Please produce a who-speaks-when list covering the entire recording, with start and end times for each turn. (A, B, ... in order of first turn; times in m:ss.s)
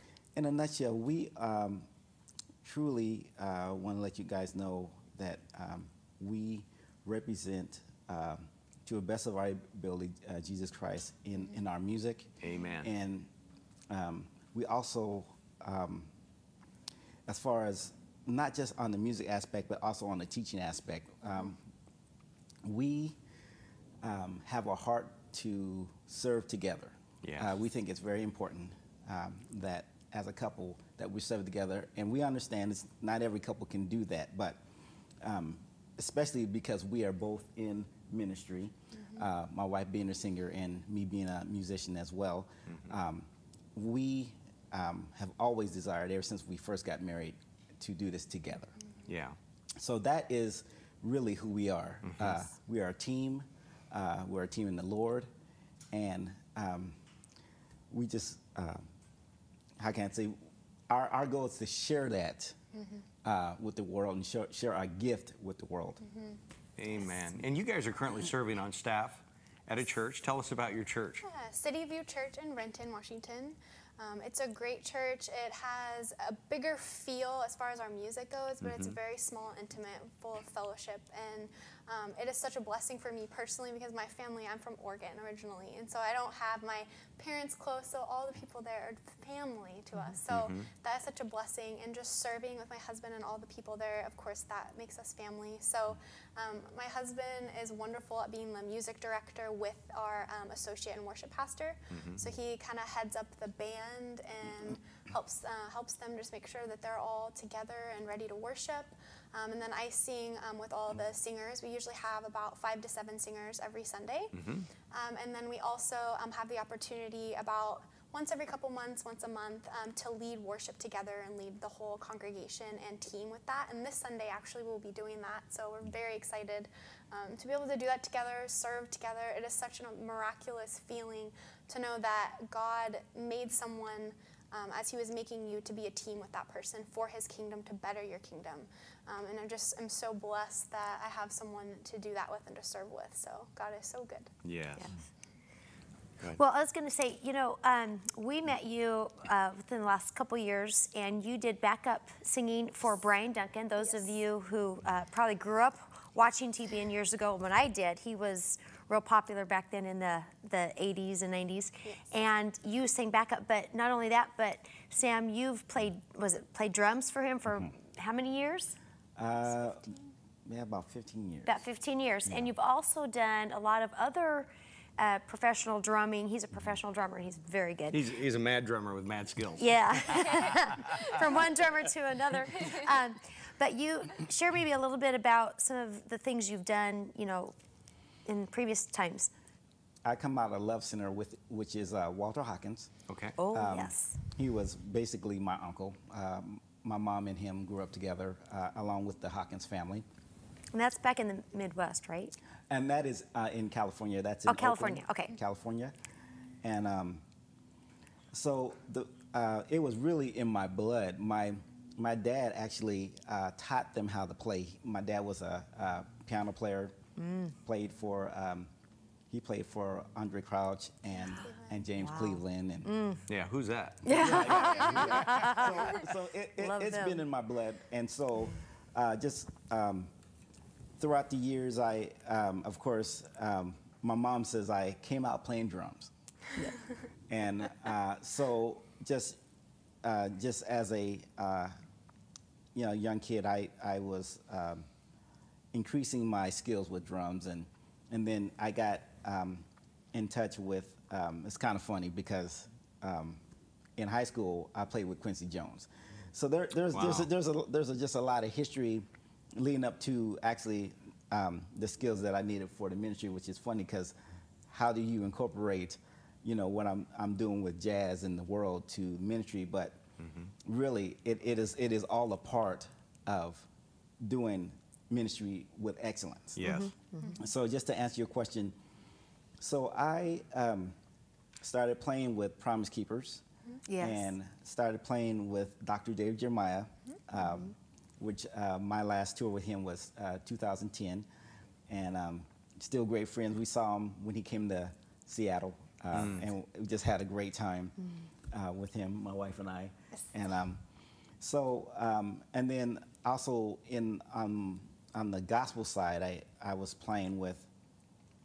0:00.4-0:01.9 A
0:02.6-0:13.3 A
0:12.4-0:12.9 B
0:13.9-0:16.1 A
0:17.3-0:21.6 A
0:22.6-0:23.2 A
0:24.0-0:34.6 A
0:27.2-0:27.6 B
0:35.2-0:48.8 A
0:39.0-0:39.2 C
0:42.7-0:43.0 B
0:49.0-0:49.4 B
0:49.8-0:55.3 A
0:52.0-0:52.4 B
0:55.9-0:57.0 A
0:57.9-0:58.8 A
0:59.8-1:02.6 A
1:02.7-1:03.0 C
1:03.2-1:06.0 A
1:06.0-1:06.4 C
1:06.8-1:11.2 B
1:11.2-1:54.3 C
1:18.6-1:19.0 B
1:30.3-1:30.7 B
1:41.9-1:42.3 B
1:54.3-1:54.7 B
1:54.9-2:24.3 C
2:24.4-2:24.9 B
2:26.3-2:48.8 D
2:33.8-2:34.1 C
2:49.2-2:49.9 A
2:49.4-2:50.1 C
2:50.4-2:51.6 A
2:51.4-2:58.0 D
2:57.9-3:01.0 B
2:59.6-3:07.6 D
3:08.2-3:09.3 D
3:10.0-3:12.9 A
3:13.1-3:13.4 B
3:13.4-3:14.2 D
3:13.5-3:20.0 A
3:20.7-3:22.4 D
3:22.7-3:25.9 A
3:24.4-3:25.3 D
3:26.6-3:27.2 A
3:28.3-3:36.9 A
3:37.2-3:37.5 D
3:37.6-3:38.7 A
3:39.3-3:42.9 A
3:41.2-3:41.8 C
3:42.0-3:43.2 D
3:43.3-3:44.7 B
3:44.0-3:46.0 D
3:44.0-3:50.1 A
3:44.9-3:45.2 C
3:46.6-3:47.2 D
3:51.0-3:56.1 A
3:57.3-3:59.4 A
4:00.0-4:01.7 A
4:02.7-4:04.8 A
4:05.7-4:13.4 A
4:14.0-4:24.1 A
4:16.9-4:17.3 B
4:24.7-4:30.0 A
4:30.2-4:30.5 B
4:30.6-4:33.7 A
4:34.2-4:36.6 A
4:36.6-4:36.9 B
4:36.6-4:37.4 D
4:37.4-4:38.8 A
4:39.6-4:40.9 A
4:41.6-4:43.4 A
4:43.9-4:44.3 D
4:44.0-4:51.2 A
4:47.4-4:47.7 D
4:51.9-4:58.0 A
4:56.1-4:56.5 B
4:58.5-5:00.8 A
5:01.4-5:07.7 A